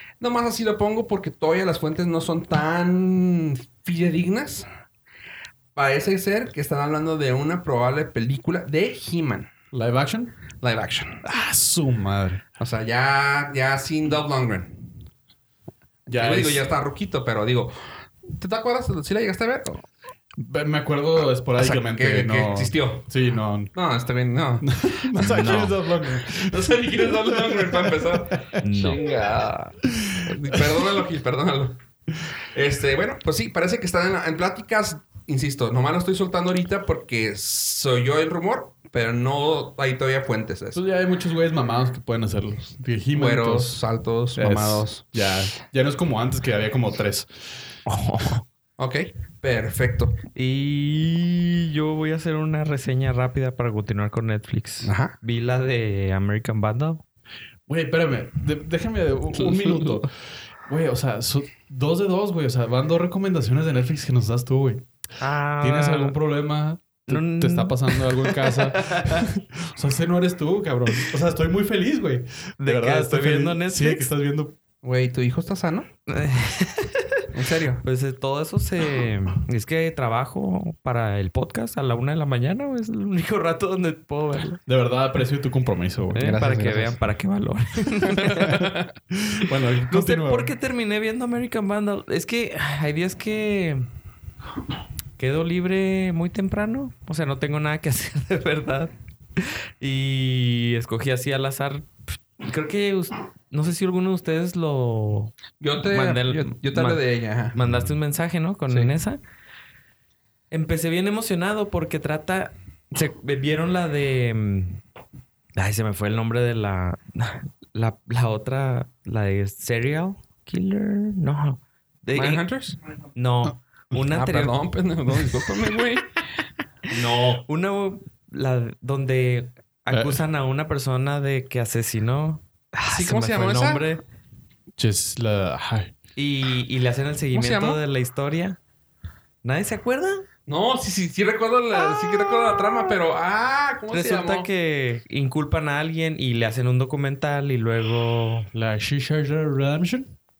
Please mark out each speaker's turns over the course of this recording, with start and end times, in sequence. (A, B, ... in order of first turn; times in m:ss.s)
0:00.2-0:04.7 A
0:05.7-0:09.5 A
0:09.7-0:10.3 B
0:10.6-0:11.2 A
0:11.2-0:12.4 B
0:12.6-0:14.9 A
0:16.1-0:16.6 B
0:16.1-0:19.9 A
0:20.4-0:23.7 B
0:21.6-0:23.1 A
0:23.7-0:31.8 A
0:24.6-0:28.6 B
0:25.2-0:25.7 C
0:28.6-0:29.0 C
0:29.8-0:30.8 B
0:32.5-0:40.8 A
0:40.7-0:43.8 B
0:43.1-0:45.0 A
0:44.4-0:47.4 B
0:47.9-0:48.4 C
0:48.8-0:50.2 A
0:50.3-0:57.0 C
0:54.8-0:55.1 A
0:57.7-1:00.1 B
0:59.6-1:00.0 C
1:00.6-1:04.8 B
1:05.2-1:06.2 C
1:05.6-1:14.6 B
1:07.1-1:09.3 C
1:12.6-1:14.1 C
1:14.8-1:15.9 A
1:16.1-1:17.3 C
1:17.3-1:17.8 A
1:17.8-1:24.6 C
1:24.6-1:26.4 B
1:26.1-1:28.7 C
1:26.2-1:26.9 A
1:28.2-1:28.8 A
1:28.4-1:30.5 B
1:29.9-1:33.9 C
1:35.2-1:47.0 C
1:45.6-1:47.6 A
1:47.5-1:49.2 C
1:50.5-1:54.8 C
1:55.6-2:02.4 C
2:02.2-2:02.8 A
2:03.1-2:04.6 C
2:04.1-2:06.2 A
2:06.9-2:14.0 C
2:09.9-2:10.2 B
2:12.9-2:13.8 A
2:14.8-2:15.9 B
2:16.2-2:18.6 C
2:17.3-2:17.8 A
2:19.4-2:20.2 C
2:20.5-2:24.5 A
2:23.9-2:28.5 C
2:28.5-2:30.1 B